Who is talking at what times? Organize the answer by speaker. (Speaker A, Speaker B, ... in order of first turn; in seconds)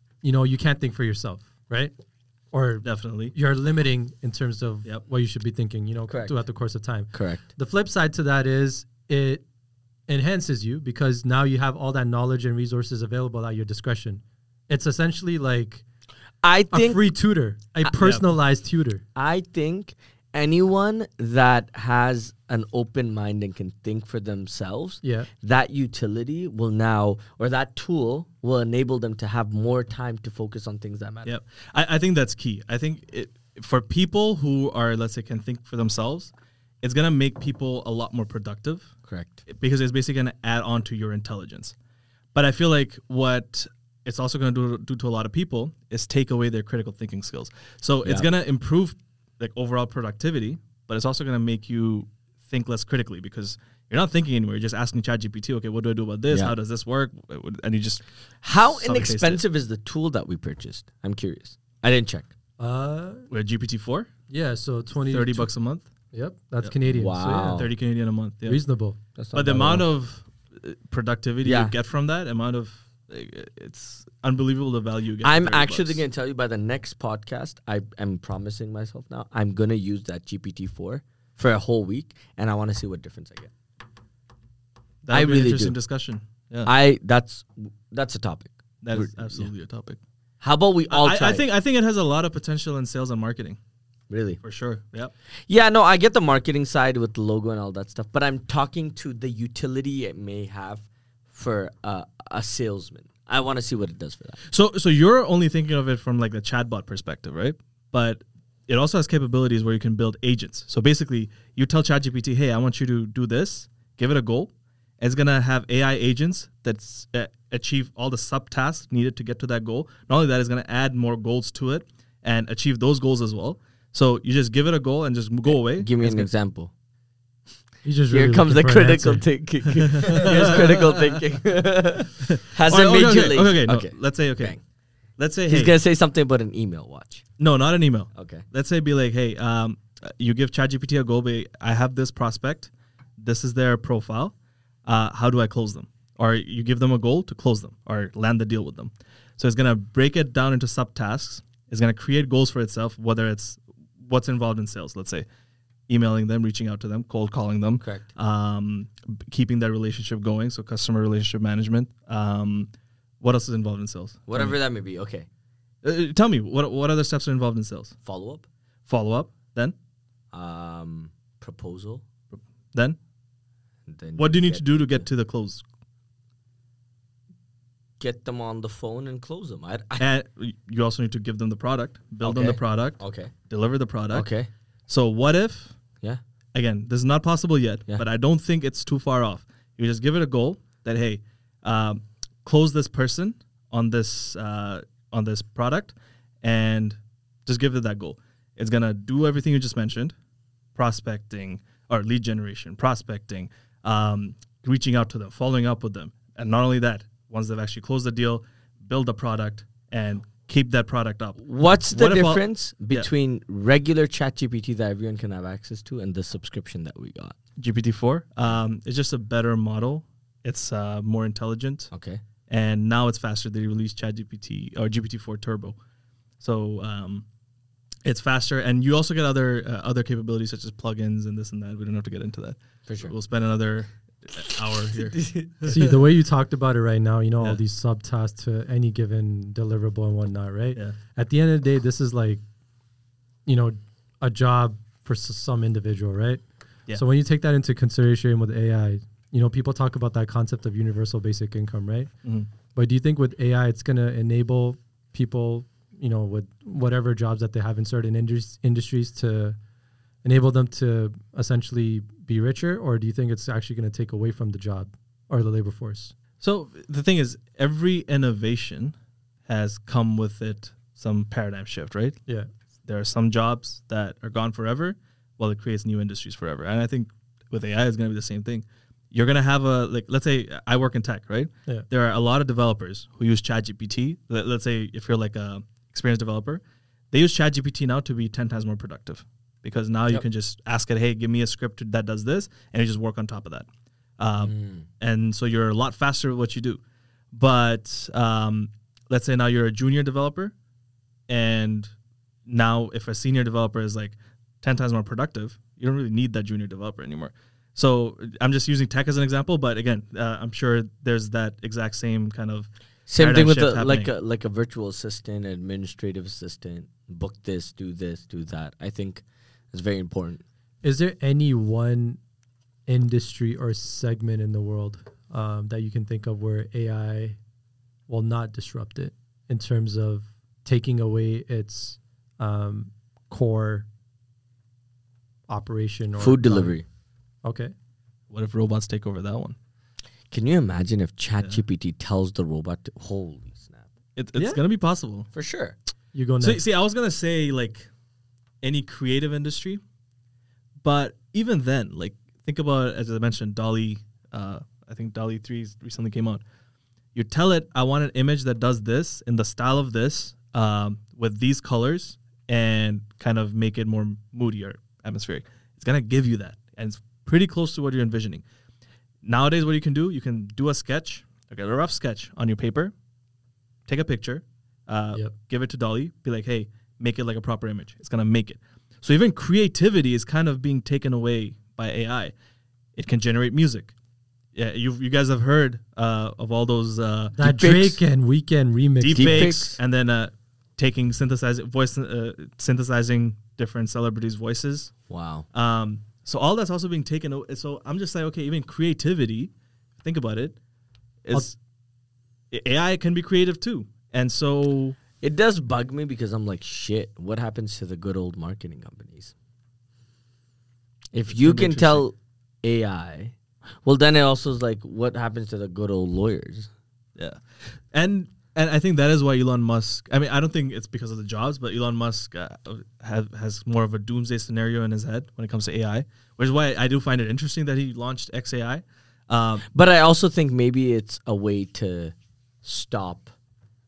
Speaker A: 0.2-1.9, 2.5-9.4, 10.1-15.8, 16.7-19.0, 25.0-25.3, 62.6-63.3, 64.3-65.5, 66.1-67.7, 68.5-69.0, 127.8-129.2, 235.7-242.4, 243.5-246.4, 246.9-252.1, 252.8-259.6, 260.2-266.1, 320.8-322.2, 322.9-327.4, 328.1-333.9, 335.5-336.8, 337.4-337.7, 346.1-346.6, 387.4-389.6
Speaker B: 2.8-3.3, 31.2-38.9, 39.5-41.8, 42.4-58.0, 58.6-59.4, 63.3-64.1, 65.1-65.9, 67.5-68.6, 69.3-76.0, 85.0-86.7, 88.8-90.0, 90.9-93.6, 94.4-95.1, 104.5-126.3, 129.7-131.2, 132.2-134.6, 135.2-135.8, 137.4-144.3, 144.9-155.2, 155.9-162.7, 163.2-164.6, 165.8-168.0, 168.9-169.8, 172.3-173.0, 174.2-175.6, 180.0-184.3, 184.9-185.8, 186.5-200.1, 200.8-213.1, 217.6-221.9, 222.5-225.8, 226.4-227.2, 228.1-236.0, 266.4-268.9, 269.5-272.2, 272.9-293.7, 294.2-296.8, 297.3-300.5, 301.3-301.9, 302.5-314.1, 338.3-339.6, 344.2-345.3, 346.4-347.9, 348.6-349.8, 350.8-356.4, 357.1-368.4, 369.2-372.9, 373.9-382.3, 383.0-383.9, 384.6-388.0, 389.0-394.9, 395.5-400.6, 401.2-401.6, 402.5-405.0, 411.3-412.1, 417.9-429.6
Speaker C: 6.1-6.4, 7.1-7.5, 16.4-17.1, 19.1-31.3, 39.1-39.4, 58.4-62.3, 66.9-67.7, 69.2-69.9, 71.4-71.7, 75.2-83.5, 85.1-85.8, 86.7-89.5, 90.4-91.5, 94.1-94.4, 95.5-104.4, 125.5-126.7, 128.1-134.6, 135.5-137.2, 138.1-138.4, 157.8-158.1, 164.3-165.3, 168.0-168.5, 170.3-172.0, 173.9-175.1, 178.0-180.0, 182.2-183.3, 184.1-184.5, 211.4-217.4, 221.9-222.2, 232.9-233.1, 234.4-235.7, 294.4-294.9, 313.1-320.4, 336.2-336.9, 340.3-343.9, 345.3-345.8, 389.1-389.8, 395.1-395.4, 405.2-409.3, 411.1-416.7, 429.7-433.3